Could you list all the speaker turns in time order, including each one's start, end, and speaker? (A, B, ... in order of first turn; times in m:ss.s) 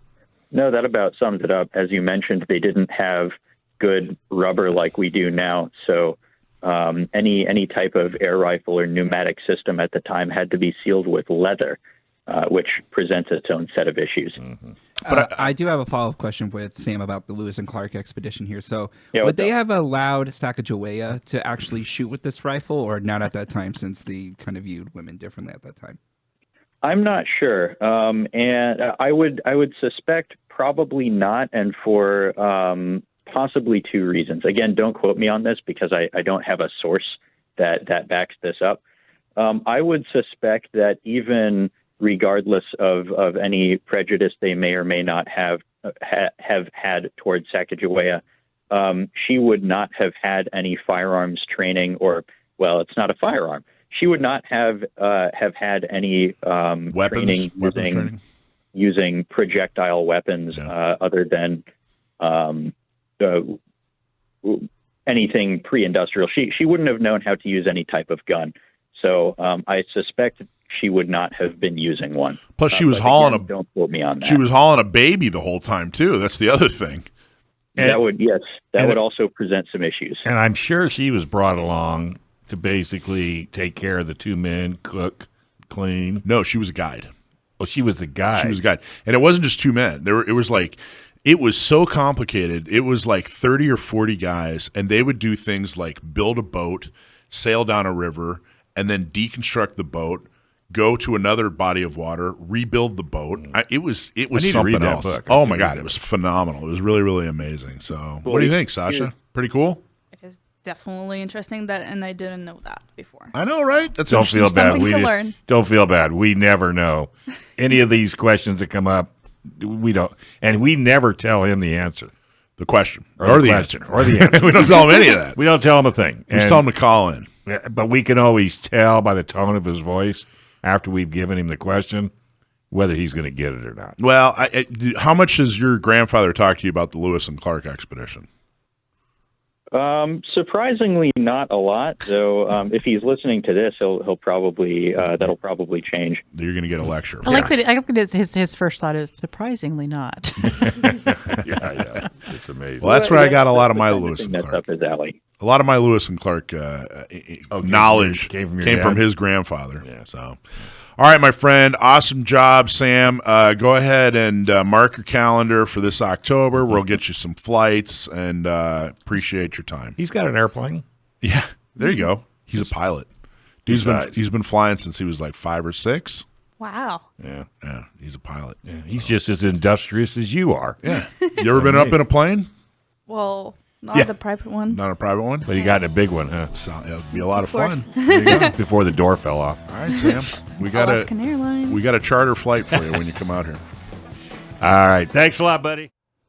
0:00.5-0:14.4 A
0:15.0-0:26.0 B
0:15.1-0:15.5 C
0:19.2-0:19.5 A
0:26.8-0:38.8 A
0:39.4-0:58.1 A
0:56.9-0:58.2 C
0:58.7-1:01.6 A
1:02.2-1:03.6 A
1:04.4-1:14.4 A
1:12.6-1:13.5 C
1:14.2-1:17.1 C
1:17.8-1:20.2 A
1:17.8-1:18.0 D
1:20.2-1:26.2 D
1:26.2-1:27.1 C
1:27.6-1:28.6 D
1:28.3-1:49.8 C
1:44.3-1:46.0 D
1:48.2-1:49.1 A
1:50.1-1:53.3 E
1:53.3-1:55.0 C
1:54.1-2:02.1 D
1:54.4-1:55.4 E
2:02.6-2:05.4 C
2:03.2-2:06.6 D
2:06.3-2:07.3 C
2:07.5-2:12.1 D
2:12.7-2:14.0 D
2:14.0-2:18.3 C
2:19.7-2:26.2 A
2:26.3-2:27.5 C
2:27.3-2:30.6 F
2:30.6-2:33.0 D
2:32.8-2:34.6 C
2:32.8-2:35.2 A
2:35.4-2:40.4 C
2:37.5-2:39.1 D
2:41.0-2:50.0 C
2:50.0-2:50.8 D
2:51.2-2:53.1 C
2:53.7-2:56.2 C
2:53.7-2:54.2 D
2:56.6-2:57.0 E
2:57.2-2:57.5 D
2:57.6-2:59.1 C
2:58.7-3:00.8 D
3:00.8-3:02.5 C
3:00.9-3:01.3 E
3:01.5-3:02.0 D
3:03.1-3:04.8 E
3:04.7-3:05.5 C
3:05.5-3:06.5 D
3:06.5-3:08.5 C
3:07.1-3:08.6 E
3:08.3-3:09.6 D
3:09.7-3:11.1 C
3:09.9-3:11.9 E
3:11.6-3:13.6 C
3:14.6-3:15.9 D